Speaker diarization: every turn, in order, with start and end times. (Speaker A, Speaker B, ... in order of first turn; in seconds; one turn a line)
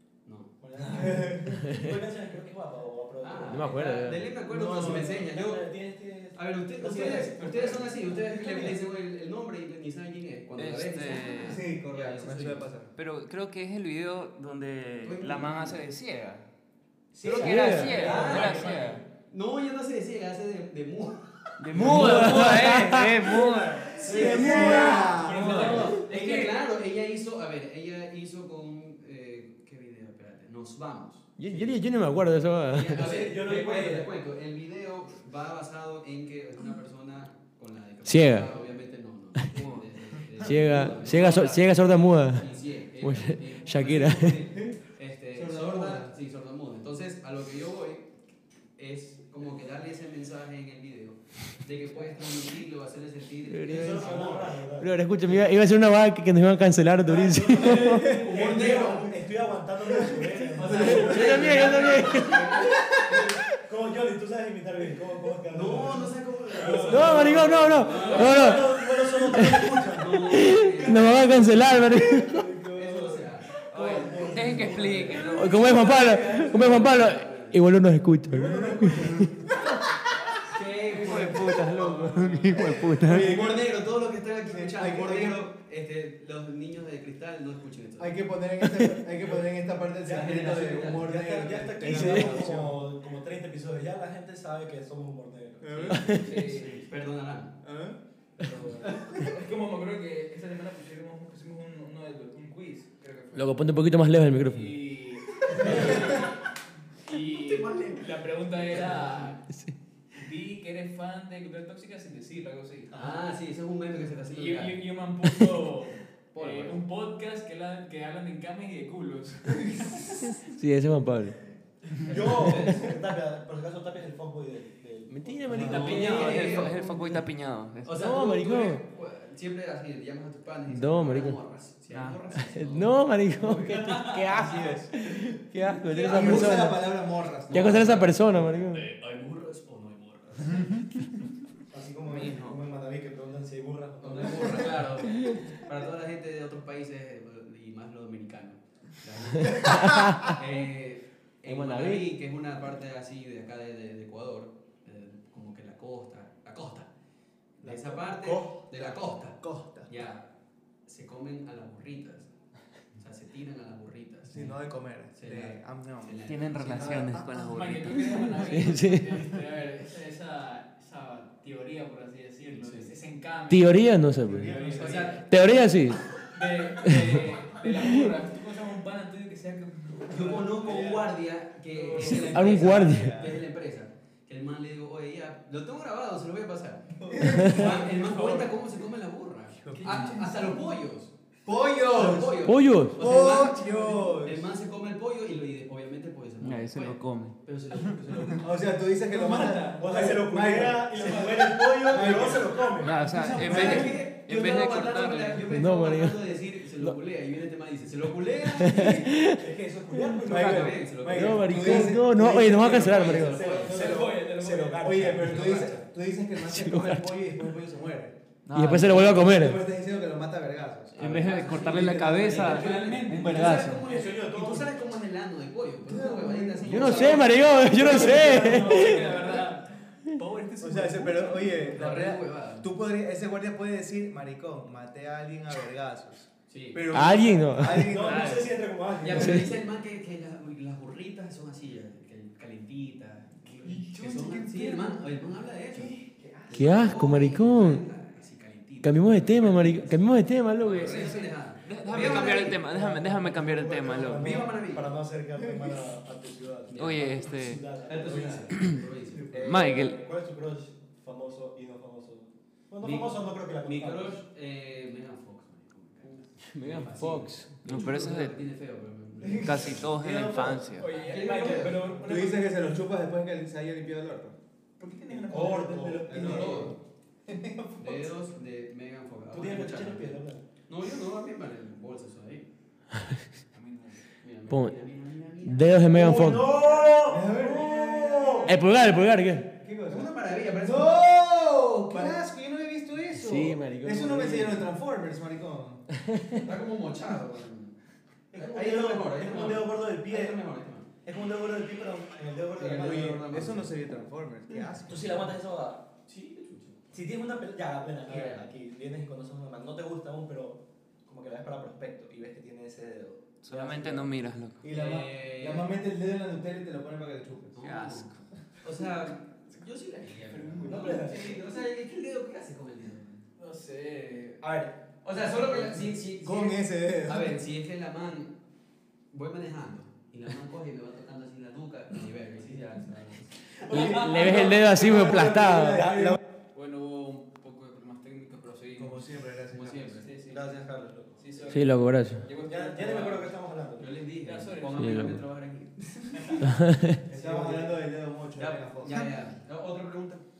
Speaker A: 0.2-0.5
Speaker B: 0.6-3.7
Speaker C: 0.9-1.6
Speaker A: 3.2-5.7
Speaker D: 3.5-4.3
Speaker C: 4.5-5.2
Speaker B: 4.7-7.7
Speaker A: 6.3-12.7
Speaker C: 7.1-8.7
Speaker B: 8.3-8.7
Speaker E: 10.6-11.6
Speaker C: 11.4-12.9
Speaker E: 12.9-16.4
Speaker A: 15.0-15.8
Speaker E: 17.1-19.0
Speaker A: 17.2-21.2
Speaker B: 17.3-18.4
Speaker C: 17.4-18.6
Speaker F: 17.8-19.0
Speaker E: 21.6-24.0
Speaker F: 21.8-22.6
Speaker D: 21.8-23.3
Speaker C: 21.8-22.0
Speaker A: 21.8-22.2
Speaker C: 23.8-25.9
Speaker B: 23.9-26.0
Speaker A: 24.0-31.8
Speaker F: 24.5-26.1
Speaker E: 26.0-26.6
Speaker D: 31.4-33.1
Speaker A: 32.7-48.1
Speaker B: 32.9-34.1
Speaker D: 38.0-38.5
Speaker E: 39.5-39.9
Speaker D: 40.4-44.4
Speaker C: 44.5-44.8
Speaker C: 45.3-46.1
Speaker A: 48.8-54.6
Speaker D: 53.5-58.1
Speaker B: 53.7-55.5
Speaker B: 57.0-71.2
Speaker C: 57.8-58.9
Speaker A: 58.0-59.2
Speaker C: 60.1-61.5
Speaker A: 60.6-62.4
Speaker F: 60.7-61.6
Speaker D: 60.9-63.0
Speaker A: 65.5-68.8
Speaker C: 66.6-67.4
Speaker F: 66.7-68.6
Speaker D: 66.8-68.7
Speaker D: 69.3-72.4
Speaker A: 69.9-71.8
Speaker C: 72.0-73.2
Speaker A: 72.7-77.6
Speaker B: 73.7-75.5
Speaker E: 73.8-75.7
Speaker C: 74.3-76.9
Speaker D: 75.3-79.3
Speaker B: 78.3-79.4
Speaker C: 78.4-79.3
Speaker A: 80.5-88.3
Speaker E: 80.9-83.0
Speaker F: 80.9-82.8
Speaker C: 81.8-83.9
Speaker D: 82.4-83.4
Speaker C: 84.5-85.5
Speaker C: 88.0-92.8
Speaker A: 90.0-91.2
Speaker B: 90.1-96.2
Speaker D: 91.8-92.4
Speaker C: 95.6-96.0
Speaker A: 95.8-97.6
Speaker D: 96.0-96.2
Speaker F: 96.1-96.8
Speaker E: 96.4-96.9
Speaker C: 97.6-98.0
Speaker A: 98.4-99.3
Speaker F: 99.2-103.8
Speaker D: 103.3-105.0
Speaker F: 104.4-109.4
Speaker A: 105.5-106.2
Speaker A: 107.2-109.4
Speaker F: 110.1-112.9
Speaker A: 112.9-114.8
Speaker F: 114.3-120.4
Speaker A: 116.3-116.8
Speaker D: 120.4-121.4
Speaker A: 122.0-122.8
Speaker B: 122.0-125.8
Speaker D: 125.1-126.5
Speaker C: 125.5-125.9
Speaker F: 125.5-126.9
Speaker A: 125.5-127.2
Speaker E: 125.8-128.0
Speaker A: 127.8-133.5
Speaker D: 127.9-128.8
Speaker D: 130.7-131.4
Speaker E: 131.9-132.3
Speaker D: 132.4-137.0
Speaker A: 134.1-134.8
Speaker C: 134.3-134.9
Speaker A: 135.9-136.8
Speaker C: 136.1-138.1
Speaker A: 137.5-140.9
Speaker D: 137.5-138.8
Speaker B: 141.7-144.9
Speaker E: 142.1-142.6
Speaker A: 144.0-156.9
Speaker D: 149.6-150.3
Speaker D: 151.4-152.1
Speaker A: 157.6-160.2
Speaker C: 157.6-159.9
Speaker A: 160.9-162.3
Speaker A: 163.0-164.5
Speaker C: 164.3-167.6
Speaker A: 165.0-167.1
Speaker E: 166.2-168.4
Speaker F: 167.4-175.3
Speaker D: 168.4-169.2
Speaker A: 172.6-172.9
Speaker D: 173.5-174.6
Speaker C: 174.2-175.2
Speaker A: 174.8-175.4
Speaker D: 175.2-176.2
Speaker F: 176.2-181.1
Speaker D: 176.8-177.1
Speaker A: 180.1-191.1
Speaker C: 181.7-183.3
Speaker D: 182.0-183.2
Speaker C: 187.0-188.1
Speaker F: 187.2-188.8
Speaker C: 189.6-190.0
Speaker F: 189.7-190.6
Speaker C: 191.5-194.5
Speaker A: 191.9-198.5
Speaker D: 192.4-193.0
Speaker E: 196.4-197.4
Speaker C: 198.4-202.7
Speaker F: 199.1-200.1
Speaker B: 199.7-203.1
Speaker E: 202.8-205.5
Speaker F: 203.0-203.9
Speaker A: 203.3-209.1
Speaker C: 203.4-204.0
Speaker D: 205.5-206.9
Speaker D: 208.6-210.2
Speaker B: 208.9-210.7
Speaker C: 210.2-214.0
Speaker A: 210.3-211.9
Speaker D: 211.1-213.4
Speaker B: 211.6-215.8
Speaker A: 212.8-213.8
Speaker F: 213.6-215.2
Speaker C: 214.8-218.2
Speaker A: 215.2-215.8
Speaker D: 216.4-217.1
Speaker E: 218.5-219.0
Speaker D: 218.5-219.6
Speaker C: 218.8-222.8
Speaker E: 221.0-223.8
Speaker F: 221.0-223.7
Speaker A: 221.2-227.8
Speaker D: 223.1-223.8
Speaker B: 223.8-224.7
Speaker C: 225.9-227.3
Speaker D: 226.7-229.0
Speaker B: 227.5-229.4
Speaker C: 227.8-229.4
Speaker F: 227.8-231.8
Speaker C: 230.6-238.5
Speaker A: 231.7-232.7
Speaker A: 236.5-236.9
Speaker D: 236.9-237.9
Speaker B: 237.6-239.6
Speaker A: 238.0-238.4
Speaker F: 238.1-238.4
Speaker A: 239.0-252.6
Speaker D: 239.2-239.5
Speaker F: 243.6-244.8
Speaker C: 243.8-244.9
Speaker C: 245.7-246.7
Speaker D: 246.6-247.8
Speaker D: 248.8-251.2
Speaker E: 250.7-254.3
Speaker C: 251.9-252.4
Speaker B: 252.0-258.6
Speaker A: 254.1-255.0
Speaker C: 254.2-254.5
Speaker A: 256.7-259.4
Speaker E: 256.8-257.6
Speaker C: 258.0-258.4
Speaker C: 259.0-259.9
Speaker B: 259.3-264.2
Speaker E: 259.4-260.0
Speaker A: 262.8-269.9
Speaker D: 266.5-267.6
Speaker E: 267.6-268.4
Speaker C: 269.2-270.6
Speaker E: 269.4-270.9
Speaker B: 270.0-270.7
Speaker F: 270.7-272.5
Speaker A: 270.9-272.0
Speaker C: 271.6-274.4
Speaker F: 274.8-276.1
Speaker B: 275.3-276.8
Speaker C: 275.3-278.1
Speaker A: 276.1-276.8
Speaker A: 277.8-282.5
Speaker B: 279.3-280.4
Speaker F: 283.5-284.0
Speaker A: 284.2-286.1
Speaker D: 284.5-284.8
Speaker D: 285.4-286.5
Speaker B: 285.9-288.6
Speaker C: 287.0-288.5
Speaker D: 288.5-289.5
Speaker C: 289.6-295.8
Speaker A: 289.9-291.1
Speaker B: 291.9-292.2
Speaker D: 293.1-294.7
Speaker A: 296.4-297.8
Speaker B: 298.3-300.4
Speaker A: 298.3-300.9
Speaker B: 301.0-303.2
Speaker A: 302.6-303.7
Speaker C: 302.7-305.1
Speaker B: 304.9-305.9
Speaker A: 306.1-306.8
Speaker B: 306.9-314.3
Speaker A: 308.1-308.4
Speaker E: 313.4-314.6
Speaker C: 314.6-317.6
Speaker A: 314.6-315.7
Speaker A: 317.6-323.2
Speaker E: 317.6-318.3
Speaker F: 320.3-321.2
Speaker B: 320.6-321.3
Speaker F: 323.4-324.4
Speaker B: 324.4-324.8
Speaker A: 325.0-328.4
Speaker C: 325.6-327.4
Speaker A: 329.1-333.5
Speaker B: 333.7-334.4
Speaker F: 333.7-334.4
Speaker D: 333.7-336.2
Speaker C: 333.7-336.2
Speaker B: 335.8-336.2
Speaker F: 336.5-339.1
Speaker C: 338.8-340.1
Speaker A: 339.5-340.1
Speaker F: 340.0-340.5
Speaker B: 340.3-341.2
Speaker F: 341.2-343.3
Speaker D: 341.5-342.2
Speaker B: 342.4-343.9
Speaker A: 343.8-346.5
Speaker F: 344.2-345.2
Speaker D: 344.8-345.2
Speaker F: 346.1-346.4
Speaker D: 346.4-347.0
Speaker C: 347.1-349.1
Speaker B: 347.1-347.6
Speaker A: 348.4-350.2